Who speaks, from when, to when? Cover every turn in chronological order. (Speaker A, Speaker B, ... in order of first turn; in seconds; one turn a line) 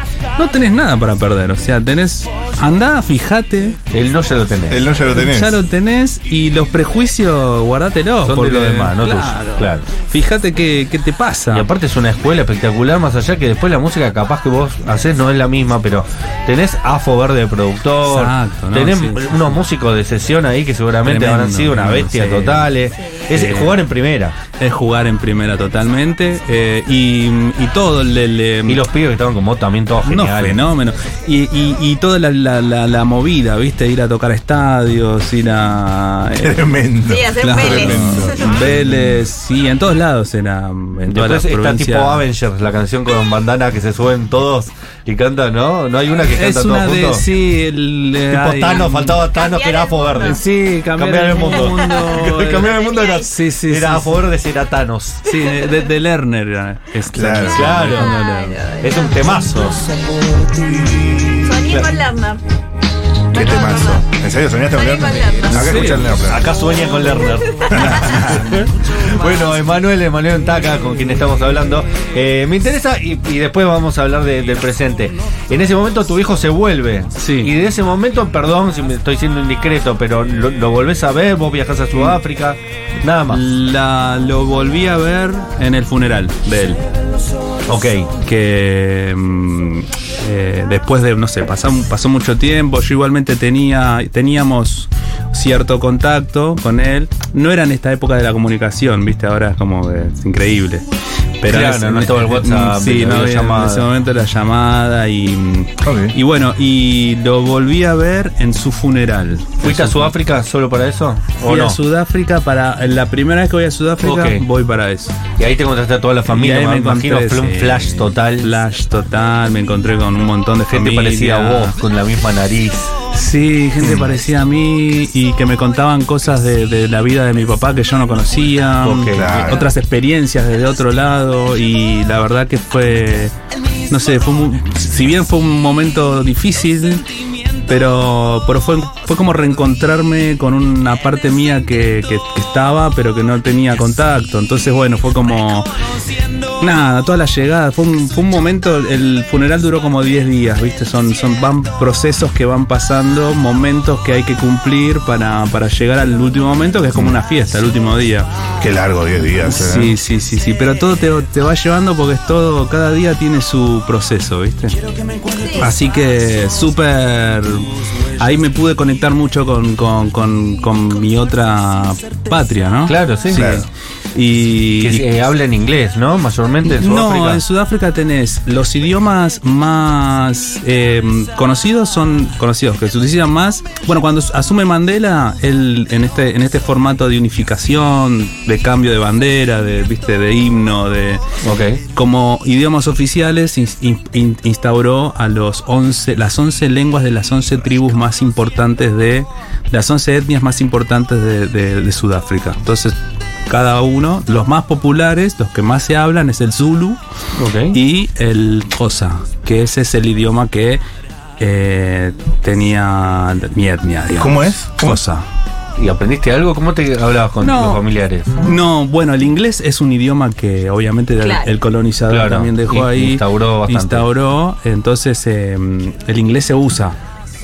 Speaker A: 0.4-3.8
Speaker B: 3.9-4.9
Speaker C: 4.7-5.6
Speaker A: 5.1-11.7
Speaker B: 8.2-9.9
Speaker B: 11.5-24.4
Speaker A: 18.1-19.6
Speaker A: 21.0-22.7
Speaker A: 23.3-23.8
Speaker A: 24.6-28.8
Speaker B: 28.7-30.6
Speaker A: 30.0-36.6
Speaker C: 36.4-39.2
Speaker D: 37.1-38.7
Speaker A: 37.4-42.2
Speaker B: 41.1-47.2
Speaker A: 46.3-49.3
Speaker B: 48.3-55.3
Speaker D: 48.7-50.4
Speaker A: 50.2-54.2
Speaker D: 51.6-53.3
Speaker A: 55.2-58.6
Speaker D: 55.4-55.7
Speaker C: 57.1-57.9
Speaker B: 57.5-58.2
Speaker D: 58.0-59.4
Speaker B: 58.8-59.8
Speaker C: 60.5-61.8
Speaker D: 61.4-62.4
Speaker D: 63.3-64.0
Speaker C: 63.3-66.5
Speaker D: 64.7-66.0
Speaker A: 65.5-66.1
Speaker B: 66.2-83.4
Speaker D: 67.1-68.0
Speaker C: 67.7-68.6
Speaker A: 67.7-68.7
Speaker A: 77.2-77.5
Speaker A: 81.9-82.2
Speaker A: 83.3-86.8
Speaker B: 87.7-88.1
Speaker A: 88.2-100.9
Speaker A: 101.4-110.1
Speaker B: 101.5-103.9
Speaker C: 105.8-106.2
Speaker B: 109.6-111.8
Speaker A: 111.4-115.2
Speaker B: 114.0-114.5
Speaker B: 115.4-118.5
Speaker A: 116.3-121.8
Speaker B: 120.7-122.9
Speaker A: 123.1-133.3
Speaker C: 123.8-124.1
Speaker B: 128.8-129.5
Speaker C: 129.1-129.7
Speaker A: 133.9-145.7
Speaker A: 146.5-158.3
Speaker C: 158.6-160.0
Speaker A: 159.4-164.8
Speaker A: 165.4-175.1
Speaker B: 172.9-173.5
Speaker C: 173.3-173.7
Speaker B: 174.8-177.4
Speaker A: 176.7-191.4
Speaker B: 191.4-191.8
Speaker A: 191.9-207.0
Speaker B: 207.4-207.8
Speaker A: 207.7-210.8
Speaker A: 211.4-215.2
Speaker C: 214.2-215.0
Speaker B: 215.8-218.3
Speaker A: 217.4-217.8
Speaker A: 218.4-227.0
Speaker D: 221.2-221.5
Speaker B: 222.1-224.1